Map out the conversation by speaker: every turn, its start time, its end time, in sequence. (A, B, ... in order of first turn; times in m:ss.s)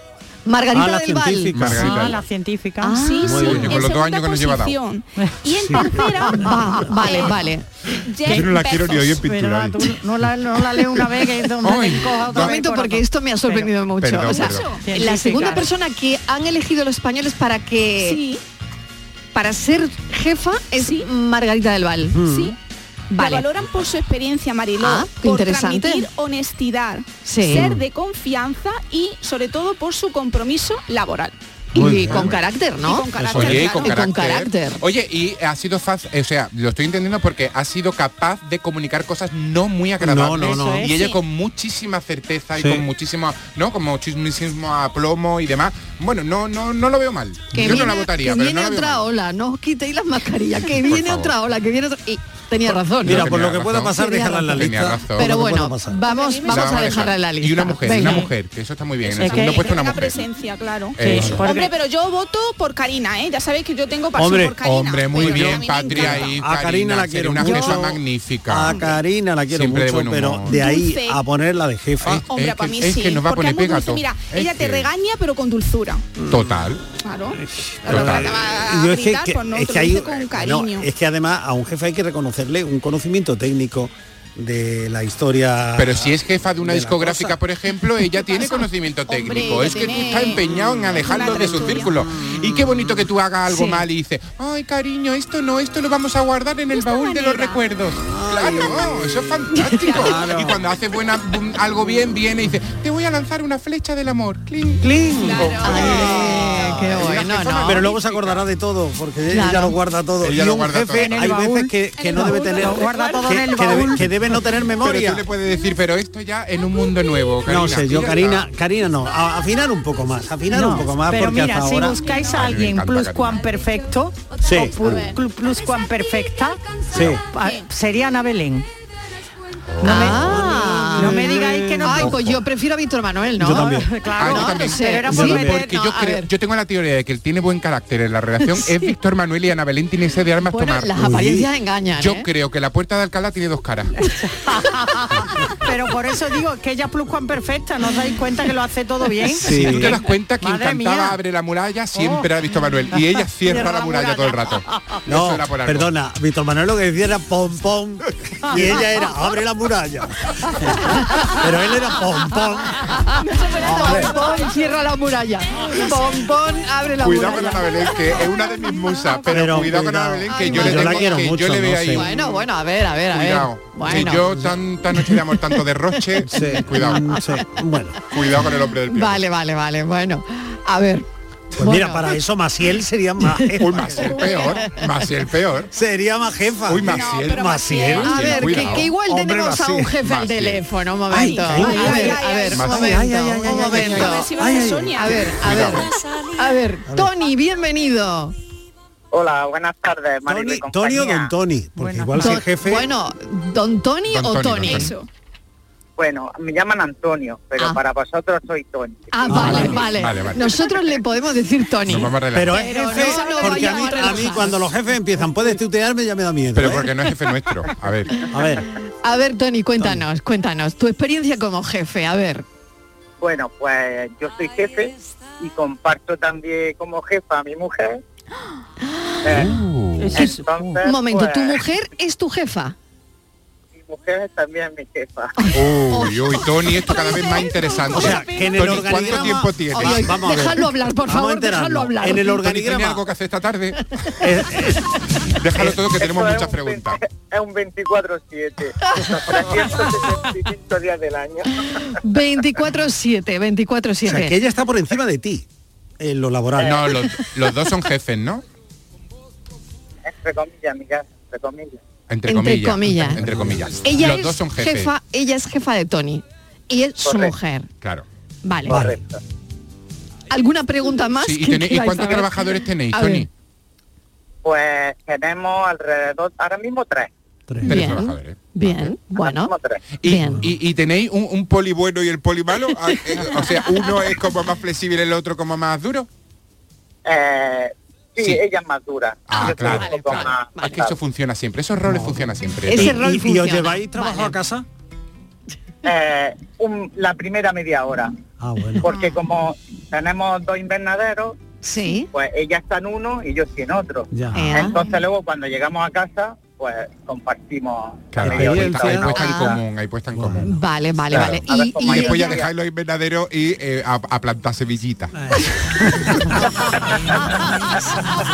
0:00.5-0:01.7 A
0:00.7-0:01.9 B
0:01.5-0:02.2 C
0:01.8-0:03.0 D
0:02.8-0:03.4 A
0:03.0-0:07.5 E
0:03.3-0:03.8 B
0:03.3-0:04.8 C
0:05.5-0:06.0 B
0:06.2-0:07.6 A
0:07.9-0:09.9 C
0:08.0-0:09.2 E
0:09.2-0:13.7 D
0:11.6-0:12.6 C
0:12.3-0:18.2 A
0:14.0-0:14.7 C
0:14.3-0:14.8 E
0:14.8-0:15.7 D
0:18.0-0:18.4 E
0:19.3-0:22.2 A
0:20.8-0:21.1 E
0:22.1-0:22.6 B
0:22.2-0:22.6 E
0:23.1-0:23.5 A
0:23.2-0:31.4 E
0:24.8-0:26.1 A
0:27.2-0:27.8 A
0:27.5-0:27.8 B
0:31.7-0:34.8 A
0:31.8-0:32.3 B
0:31.9-0:32.5 C
0:32.8-0:34.2 E
0:33.2-0:49.1 C
0:33.3-0:33.6 B
0:40.0-0:40.9 B
0:40.4-0:40.9 D
0:42.6-0:42.8 B
0:47.5-0:53.4 A
0:50.7-0:51.4 C
0:53.0-0:56.0 B
0:53.0-0:54.0 C
0:54.0-0:58.3 A
0:54.5-0:55.3 C
0:56.0-0:57.0 E
0:56.5-1:00.2 C
0:59.1-1:06.3 E
0:59.2-0:59.7 D
1:01.0-1:01.5 C
1:01.0-1:01.7 D
1:01.0-1:01.5 B
1:04.2-1:04.6 B
1:04.6-1:08.9 C
1:05.2-1:12.2 B
1:09.5-1:10.6 C
1:10.5-1:11.2 E
1:12.0-1:14.9 C
1:12.2-1:16.1 E
1:16.2-1:16.8 B
1:16.3-1:16.8 C
1:17.0-1:20.9 E
1:17.4-1:27.4 B
1:17.9-1:18.4 C
1:25.8-1:44.9 C
1:28.2-1:31.9 E
1:29.2-1:30.4 A
1:30.9-1:32.9 B
1:33.5-1:33.8 A
1:36.7-1:37.6 E
1:37.9-1:40.6 B
1:39.5-1:40.0 A
1:44.8-1:55.2 B
1:45.2-1:46.2 E
1:45.6-1:47.8 A
1:46.3-1:48.4 C
1:49.3-1:49.8 A
1:50.2-1:51.2 C
1:50.9-1:54.4 D
1:52.0-1:53.3 E
1:54.8-1:58.5 C
1:57.5-2:02.0 B
2:00.5-2:06.6 D
2:02.0-2:02.3 E
2:02.2-2:03.5 C
2:04.3-2:05.1 E
2:04.4-2:05.1 B
2:06.9-2:07.2 B
2:07.1-2:08.7 D
2:07.4-2:07.7 E
2:09.7-2:10.5 C
2:09.8-2:16.3 A
2:09.9-2:10.3 D
2:09.9-2:12.2 B
2:10.9-2:12.3 D
2:13.4-2:13.9 B
2:13.5-2:15.7 D
2:14.2-2:20.9 C
2:15.1-2:15.5 B
2:18.5-2:19.0 A
2:20.5-2:22.3 A
2:21.0-2:21.5 B
2:22.0-2:24.1 C
2:24.0-2:31.2 D
2:29.3-2:30.0 B
2:29.4-2:35.9 C
2:31.9-2:32.3 D
2:33.4-2:34.5 D
2:35.1-2:42.8 B
2:43.2-2:44.6 E
2:43.6-2:47.7 A
2:43.6-2:44.2 B
2:47.0-2:52.2 C
2:49.3-2:52.1 B
2:50.3-2:51.3 A
2:51.9-2:54.2 A
2:53.1-2:57.2 C
2:53.9-2:54.5 B
2:56.2-2:58.0 B
2:56.8-2:57.3 A
2:58.1-2:59.2 C
2:58.9-3:01.0 A
3:01.5-3:04.5 B
3:01.6-3:02.1 A
3:03.6-3:05.7 C
3:04.0-3:04.7 E
3:05.7-3:09.9 B
3:06.7-3:08.9 C
3:06.8-3:08.6 E
3:08.0-3:14.3 A
3:09.4-3:10.6 C
3:11.1-3:15.1 B
3:11.2-3:15.2 E
3:12.5-3:13.0 C
3:15.0-3:18.4 A
3:15.4-3:15.9 C
3:16.9-3:17.1 B
3:19.1-3:21.3 F
3:20.3-3:22.9 B
3:21.8-3:22.5 D
3:22.2-3:24.9 A
3:24.1-3:24.9 C
3:24.7-3:25.1 E
3:26.0-3:29.4 F
3:29.1-3:34.6 A
3:29.3-3:29.9 B
3:29.3-3:30.6 C
3:31.9-3:32.6 C
3:32.3-3:36.9 B
3:32.6-3:34.6 E
3:36.6-3:38.3 C
3:38.3-3:38.6 B
3:39.0-3:42.4 A
3:39.8-3:40.0 B
3:43.2-3:48.0 F
3:49.2-3:49.5 F
3:49.3-3:50.3 C
3:50.1-3:51.6 F
3:50.8-3:52.8 A
3:53.8-3:55.5 F
3:55.4-3:57.0 A
3:55.5-4:00.1 C
3:56.9-3:59.1 E
3:57.9-4:03.0 B
3:59.7-4:02.4 A
4:02.3-4:04.2 C
4:04.2-4:04.9 B
4:05.2-4:07.0 C
4:05.6-4:05.8 B
4:06.0-4:11.9 F
4:12.0-4:14.4 A
4:14.0-4:15.4 B
4:16.0-4:17.0 B
4:16.6-4:18.4 C
4:20.0-4:21.8 F
4:22.1-4:24.9 C
4:22.3-4:23.2 A
4:23.2-4:23.7 B
4:23.8-4:27.7 A
4:27.0-4:27.4 F
4:28.4-4:28.8 A
4:28.7-4:29.0 B
4:28.7-4:29.2 F
4:30.3-4:33.3 A
4:31.2-4:33.3 C
4:34.4-4:37.1 F
4:37.5-4:38.0 B
4:37.6-4:38.9 C
4:37.7-4:39.5 A
4:39.2-4:39.8 F
4:40.0-4:46.1 C
4:40.0-4:40.4 A
4:47.0-4:50.9 F
4:49.3-4:53.0 C
4:49.4-4:50.8 A
4:51.9-4:54.6 B
4:52.7-4:54.4 A
4:55.8-4:58.1 F
4:58.4-4:59.0 B
4:58.8-5:01.4 F
5:01.6-5:02.1 A
5:02.1-5:09.5 F
5:04.1-5:04.6 B
5:04.3-5:04.8 A
5:08.1-5:10.6 C
5:08.2-5:09.3 B
5:09.1-5:09.6 A
5:10.1-5:10.5 B
5:10.4-5:12.4 A
5:11.1-5:15.3 C
5:11.2-5:12.5 F